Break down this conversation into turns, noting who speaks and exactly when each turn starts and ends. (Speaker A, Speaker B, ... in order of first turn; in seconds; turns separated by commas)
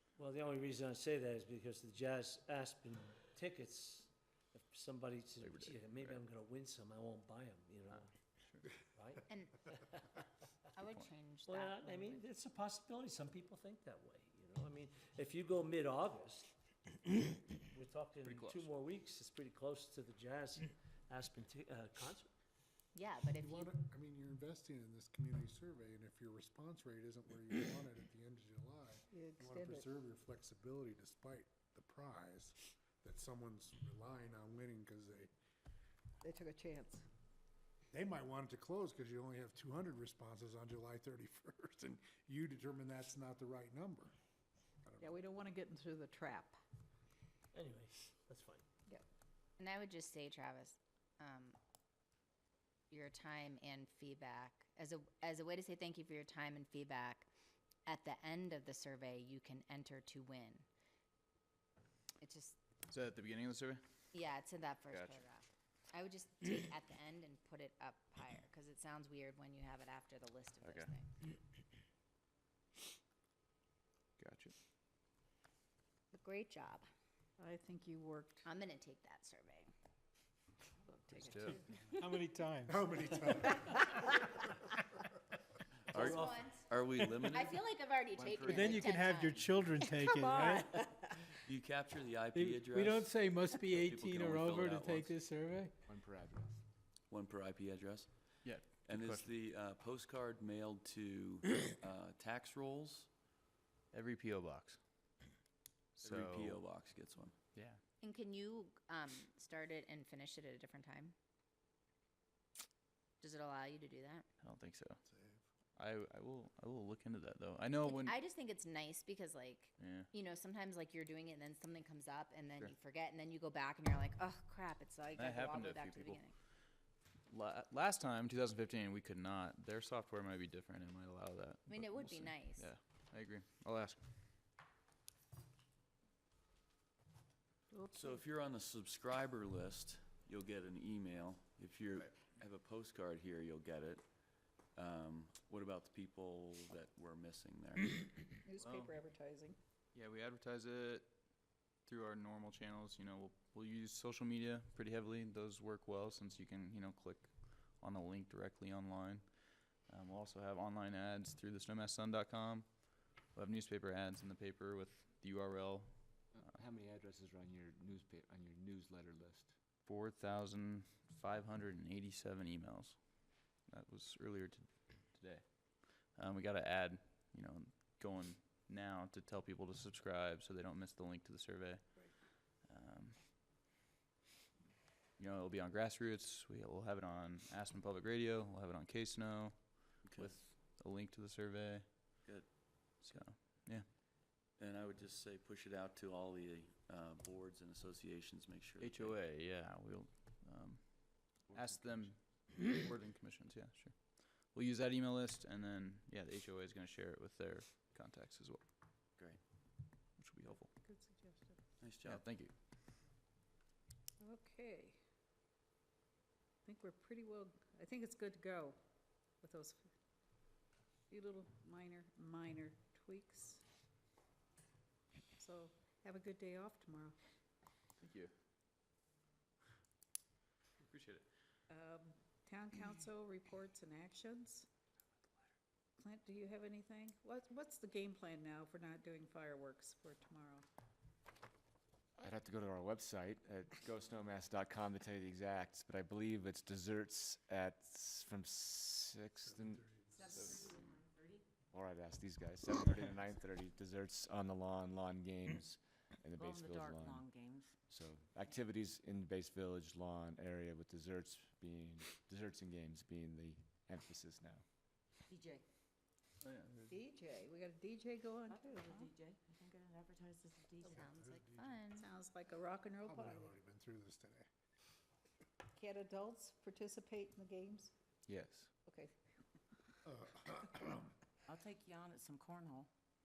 Speaker A: 0.1-8.1, Speaker B: 5.4-6.2, Speaker B: 7.9-8.7, Speaker A: 8.9-10.0, Speaker C: 9.3-9.7, Speaker C: 10.7-12.2, Speaker A: 11.4-22.3, Speaker B: 18.2-18.7, Speaker C: 22.9-23.7, Speaker D: 23.4-35.3, Speaker E: 29.1-29.9, Speaker E: 36.2-37.0, Speaker D: 37.9-44.1, Speaker D: 44.8-45.1, Speaker E: 45.0-46.6, Speaker A: 47.5-48.6, Speaker C: 49.6-51.6, Speaker C: 52.9-57.3, Speaker C: 57.9-60.6, Speaker C: 62.2-62.6, Speaker B: 62.9-63.8, Speaker C: 64.1-71.1, Speaker B: 64.9-65.2, Speaker B: 70.6-70.9, Speaker B: 74.2-74.5, Speaker C: 76.1-76.8, Speaker E: 77.4-78.5, Speaker C: 78.4-79.7, Speaker E: 80.8-81.7, Speaker B: 81.1-81.6, Speaker F: 82.0-82.7, Speaker D: 82.7-84.3, Speaker G: 85.9-87.6, Speaker C: 86.0-86.7, Speaker C: 87.2-90.2, Speaker H: 88.1-88.9, Speaker F: 89.1-90.3, Speaker G: 91.4-95.1, Speaker F: 92.3-95.6, Speaker H: 95.8-96.6, Speaker G: 97.1-103.1, Speaker B: 98.4-99.3, Speaker B: 103.9-104.8, Speaker B: 106.0-106.6, Speaker G: 106.0-107.3, Speaker B: 107.5-107.8, Speaker C: 108.0-111.1, Speaker C: 113.2-114.3, Speaker B: 114.4-115.0, Speaker D: 115.0-115.4, Speaker B: 115.8-118.1, Speaker C: 117.8-126.3, Speaker B: 119.8-120.1, Speaker B: 125.1-126.2, Speaker B: 127.3-134.0, Speaker C: 131.7-132.7, Speaker E: 137.7-138.2, Speaker G: 137.9-148.3, Speaker E: 148.4-149.6, Speaker B: 148.6-149.0, Speaker B: 149.9-166.3, Speaker H: 166.3-169.5, Speaker B: 169.8-182.0, Speaker B: 182.6-183.2, Speaker B: 185.2-192.3, Speaker G: 190.0-190.4, Speaker G: 192.2-193.2, Speaker B: 193.0-193.8, Speaker G: 194.6-199.2, Speaker B: 198.8-208.6, Speaker H: 201.5-202.1, Speaker B: 210.2-210.7, Speaker E: 210.8-211.6, Speaker G: 211.8-212.3, Speaker B: 212.0-212.5, Speaker E: 214.2-215.0, Speaker E: 216.6-218.8, Speaker E: 219.4-219.8, Speaker E: 221.1-223.6, Speaker E: 225.3-227.2, Speaker B: 228.0-228.3, Speaker B: 230.8-231.2, Speaker E: 231.7-234.7, Speaker E: 236.0-240.7, Speaker H: 242.2-250.7, Speaker D: 249.5-250.3, Speaker I: 250.2-251.4, Speaker H: 251.7-257.3, Speaker I: 256.4-257.7, Speaker H: 257.9-264.6, Speaker I: 265.3-265.6, Speaker B: 266.4-266.9, Speaker E: 266.9-269.1, Speaker I: 268.5-271.0, Speaker C: 270.8-272.1, Speaker D: 270.9-271.8, Speaker E: 271.9-273.6, Speaker D: 273.0-274.5, Speaker E: 275.7-277.9, Speaker H: 278.3-278.7, Speaker E: 278.9-279.1, Speaker D: 280.1-281.1, Speaker I: 281.5-282.9